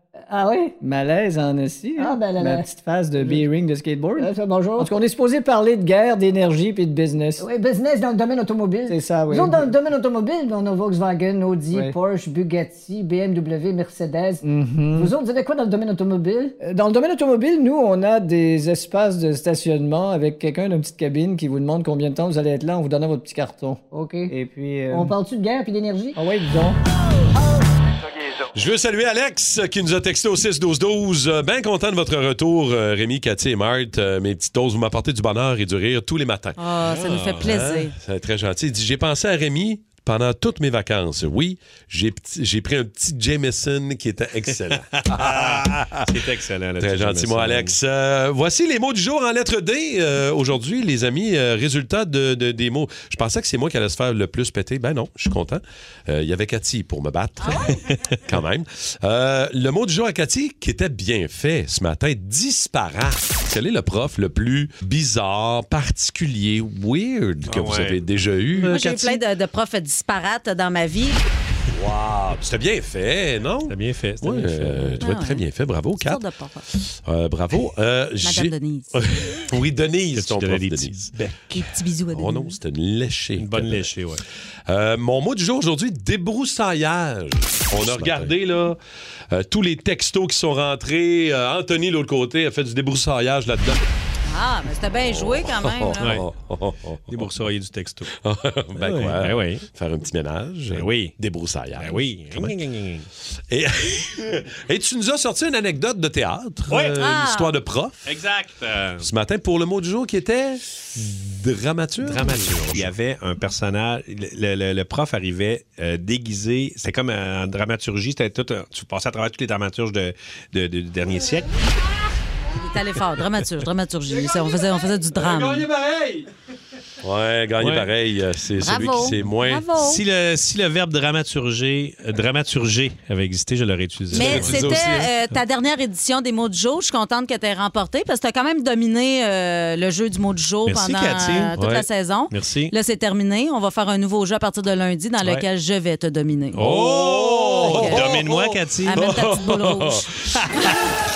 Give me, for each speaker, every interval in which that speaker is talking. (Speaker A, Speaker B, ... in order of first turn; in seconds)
Speaker A: 0.3-0.8, 2.0-3.4, 4.2-4.9, 7.4-16.6, 23.9-24.3, 24.9-26.2, 28.0-28.4
Speaker B: 0.8-7.4, 8.9-9.7, 14.4-15.1, 16.6-25.1, 26.1-26.8
Speaker C: 28.5-36.6, 37.4-46.1, 46.8-57.7, 58.2-68.8, 71.7-76.2, 76.7-81.4, 82.1-83.9, 84.7-88.8, 89.3-93.8, 95.1-97.3, 98.2-102.6, 103.5-108.1, 109.0-112.9, 125.2-126.2, 127.0-129.7, 134.1-135.1, 141.6-141.8, 146.6-150.4
Speaker D: 36.6-37.9, 57.4-57.7, 68.6-71.2, 75.0-75.5, 76.0-76.7, 78.2-79.0, 81.5-82.6, 94.2-96.2, 107.0-107.5, 122.5-125.7, 128.6-130.0, 134.1-146.6, 147.6-148.2, 148.8-150.1
Speaker E: 36.8-37.6, 44.9-47.8, 67.5-68.0, 68.5-69.2, 73.7-75.0, 80.1-81.3, 83.4-84.2, 96.0-96.3, 97.1-98.2, 98.8-99.6, 100.7-101.1, 101.8-103.1, 106.7-107.0, 108.0-109.1, 112.0-121.5, 125.3-125.7, 127.6-127.9, 129.7-134.9, 140.7-141.6, 142.3-142.7, 146.5-149.1